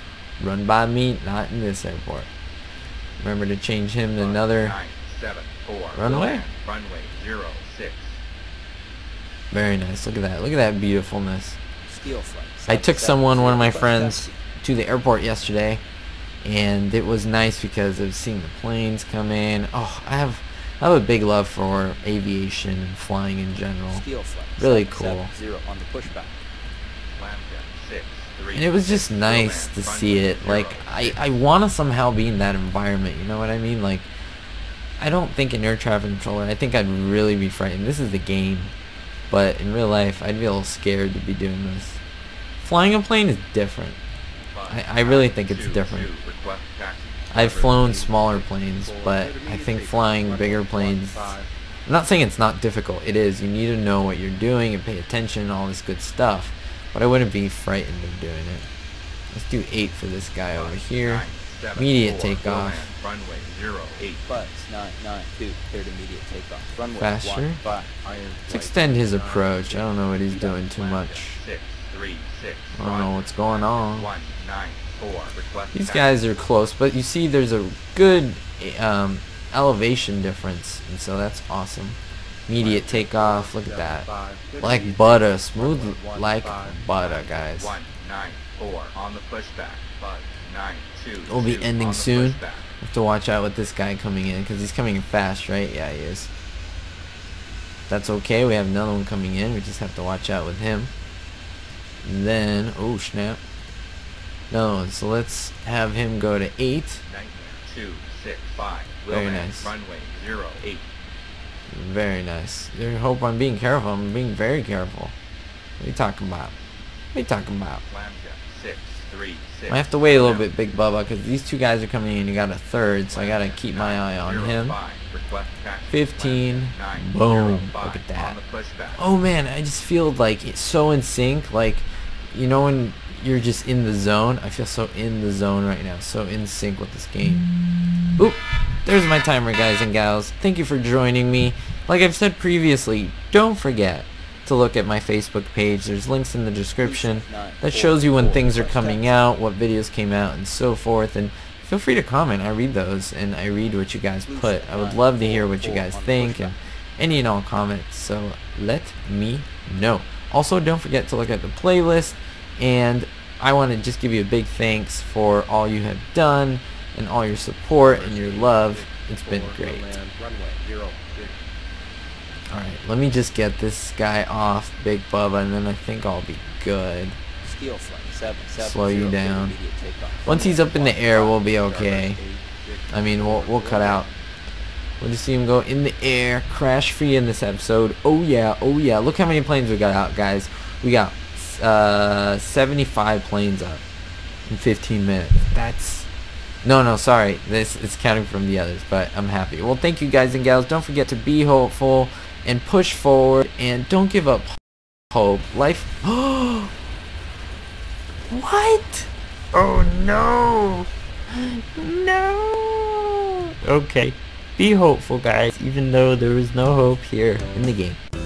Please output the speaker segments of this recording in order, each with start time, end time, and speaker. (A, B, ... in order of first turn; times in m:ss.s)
0:00.4-0:02.3 A
0:03.2-0:04.8 A
0:04.2-0:08.2 B
0:05.9-0:06.4 A
0:09.5-0:11.6 A
0:11.9-0:14.4 C
0:12.7-0:15.8 A
0:16.4-0:24.0 A
0:23.9-0:26.4 C
0:24.6-0:25.3 A
0:27.2-0:31.4 B
0:28.5-0:34.1 A
0:35.0-0:38.7 A
0:39.3-0:42.0 A
0:42.6-0:44.0 A
0:44.5-0:47.2 B
0:44.7-0:46.1 A
0:47.3-0:51.3 A
0:47.3-0:51.5 D
0:51.9-0:58.7 A
0:59.3-1:02.9 A
1:00.5-1:04.2 B
1:04.3-1:07.9 C
1:07.0-1:07.6 A
1:08.0-1:10.6 D
1:08.5-1:11.4 A
1:10.7-1:16.3 B
1:12.7-1:14.1 A
1:15.7-1:24.0 A
1:22.6-1:26.8 D
1:24.6-1:27.8 A
1:26.9-1:32.7 B
1:31.2-1:36.3 A
1:37.9-1:40.9 A
1:42.0-1:43.4 A
1:44.5-1:47.0 A
1:47.0-1:50.8 B
1:49.1-1:49.7 A
1:51.7-1:55.1 A
1:55.8-1:56.5 A
1:57.1-1:57.8 A
1:57.9-2:00.5 B
1:59.7-2:04.8 A
2:03.1-2:09.0 B
2:05.9-2:08.4 A
2:09.0-2:17.5 A
2:18.2-2:50.0 A
2:26.8-2:29.3 C
2:34.2-2:36.5 C
2:47.8-2:51.4 D
2:52.5-2:57.2 A
2:57.4-3:00.5 C
2:58.6-2:59.6 A
3:00.2-3:02.2 A
3:00.3-3:04.1 D
3:02.9-3:04.1 A
3:05.0-3:13.8 A
3:14.5-3:16.1 A
3:16.6-3:24.6 A
3:25.1-3:26.7 A
3:28.3-3:38.0 A